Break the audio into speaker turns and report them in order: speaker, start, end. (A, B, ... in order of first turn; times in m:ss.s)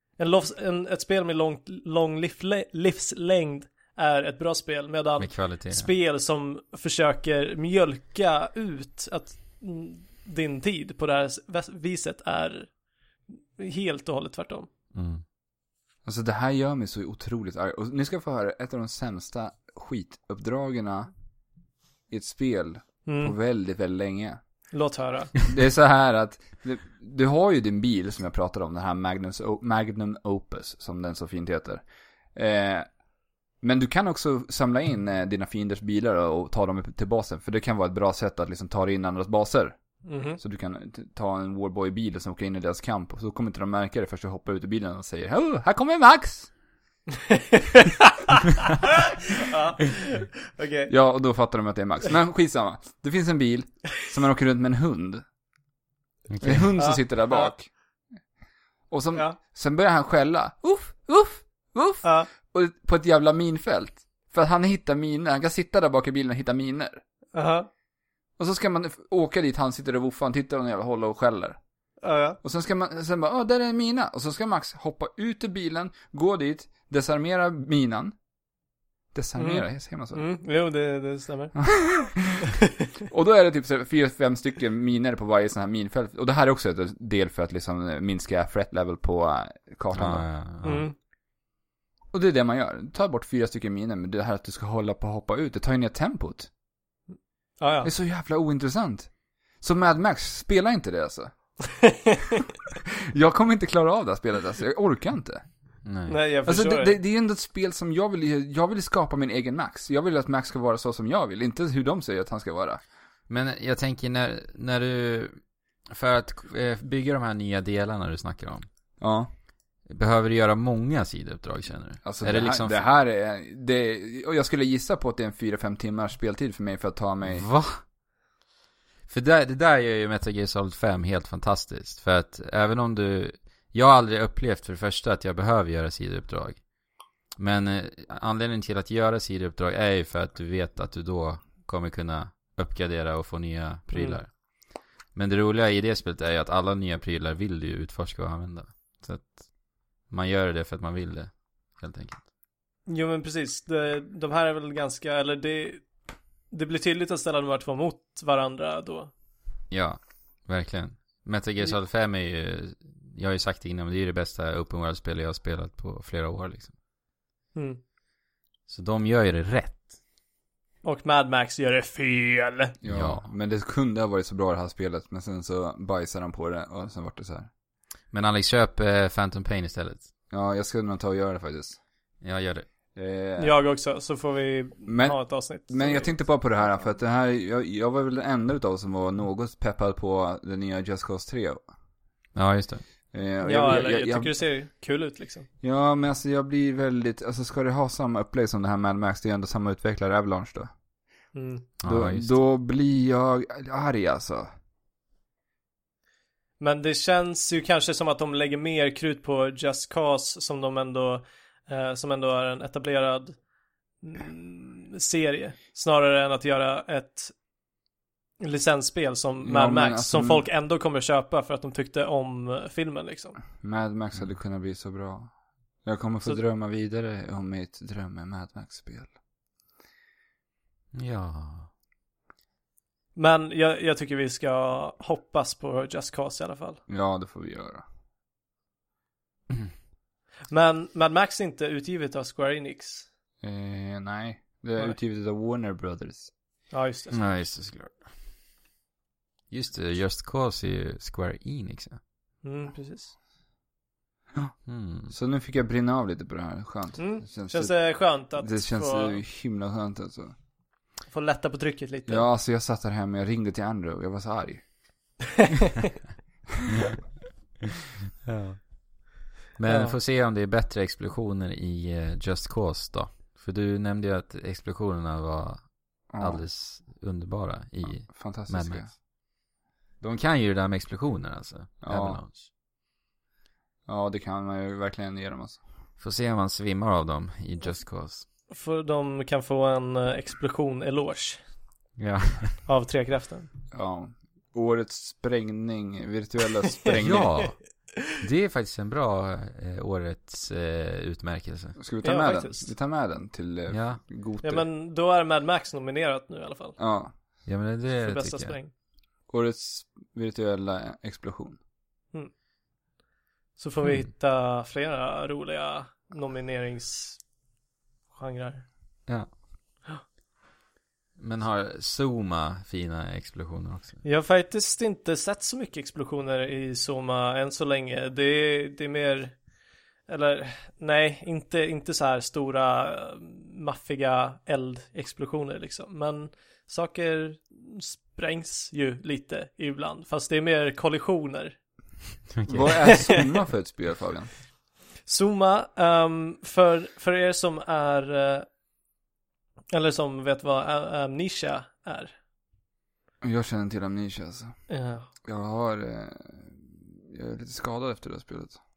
0:00.2-0:12.7 A
0:05.2-0:05.9 B
0:13.6-0:14.7 A
0:14.9-0:15.2 B
0:16.0-0:21.1 C
0:22.1-0:24.4 C
0:23.0-0:23.3 A
0:24.7-0:25.3 A
0:25.5-0:31.8 C
0:32.3-0:32.8 C
0:33.6-0:39.8 C
0:40.0-0:40.4 A
0:40.4-0:46.5 C
0:47.3-0:50.9 A
0:50.9-0:55.2 C
0:56.3-0:56.7 B
0:56.4-0:57.7 C
0:56.8-0:57.5 A
0:58.9-1:07.0 C
1:02.0-1:02.3 A
1:07.3-1:07.7 A
1:08.4-1:11.6 C
1:12.0-1:12.4 A
1:12.4-1:18.1 C
1:19.1-1:20.2 C
1:19.4-1:21.6 A
1:21.5-1:22.5 C
1:23.1-1:30.2 C
1:29.9-1:30.8 B
1:30.6-1:30.9 A
1:32.1-1:36.5 C
1:37.6-1:37.9 A
1:37.8-1:39.1 C
1:39.6-1:41.3 C
1:41.8-1:42.4 A
1:42.8-1:45.4 C
1:45.8-1:46.2 B
1:46.1-1:47.0 A
1:46.4-1:52.8 C
1:53.3-1:58.7 B
1:59.0-1:59.3 C
1:59.8-2:02.8 B
2:02.0-2:07.5 C
2:07.3-2:07.8 B
2:09.1-2:16.6 B
2:17.4-2:24.3 B
2:23.9-2:24.2 A
2:25.1-2:29.5 B
2:30.1-2:32.2 B
2:32.9-2:35.8 A
2:36.5-2:39.1 A
2:39.7-2:46.7 B
2:47.5-2:47.8 A
2:48.7-2:49.9 B
2:50.8-2:52.7 A
2:52.8-2:57.5 C
2:52.9-2:53.2 B
2:58.1-3:00.1 B
3:00.3-3:01.8 C
3:02.2-3:02.7 B
3:02.9-3:03.6 C
3:03.4-3:06.2 A
3:04.9-3:11.6 C
3:12.3-3:12.8 B
3:13.1-3:14.4 C
3:13.4-3:15.5 A
3:15.6-3:20.7 C
3:21.3-3:21.7 A
3:21.8-3:22.3 B
3:21.8-3:24.5 C
3:26.6-3:33.4 A
3:34.0-3:37.3 A
3:38.4-3:43.4 A
3:39.4-3:40.4 C
3:43.6-3:45.3 C
3:45.8-3:49.1 C
3:50.9-3:51.7 B
3:53.2-3:56.8 A
3:56.9-3:57.8 C
4:00.5-4:03.1 A
4:03.4-4:06.3 C
4:06.7-4:07.2 A
4:07.1-4:08.1 B
4:09.5-4:12.0 B
4:12.4-4:13.1 A
4:14.6-4:15.1 B
4:15.1-4:20.3 C
4:17.0-4:19.2 A
4:21.1-4:22.2 A
4:22.0-4:24.6 C
4:28.2-4:28.7 B
4:29.6-4:38.9 B
4:29.7-4:29.9 A
4:36.1-4:36.4 C
4:38.0-4:38.9 C
4:40.0-4:42.5 B
4:41.8-4:42.2 C
4:43.9-4:45.6 C
4:46.0-4:48.2 B
4:48.5-4:51.4 A
4:52.0-4:52.6 B
4:52.6-4:53.5 A
4:53.7-4:57.5 C
4:57.0-5:01.8 B
5:01.8-5:04.6 C
5:02.0-5:02.7 A
5:03.7-5:04.0 B
5:04.4-5:06.8 A
5:06.8-5:07.1 C
5:07.4-5:08.6 B
5:07.9-5:08.7 A
5:09.3-5:11.6 C
5:13.6-5:17.2 A
5:18.1-5:18.6 A
5:21.2-5:24.0 B
5:24.0-5:29.4 A
5:30.1-5:41.6 A
5:42.3-5:42.7 B
5:42.5-5:44.3 C
5:42.8-5:43.2 A
5:45.0-5:48.4 A
5:49.7-5:52.1 A
5:53.2-5:54.5 C
5:54.7-5:55.1 A
5:55.2-5:58.6 C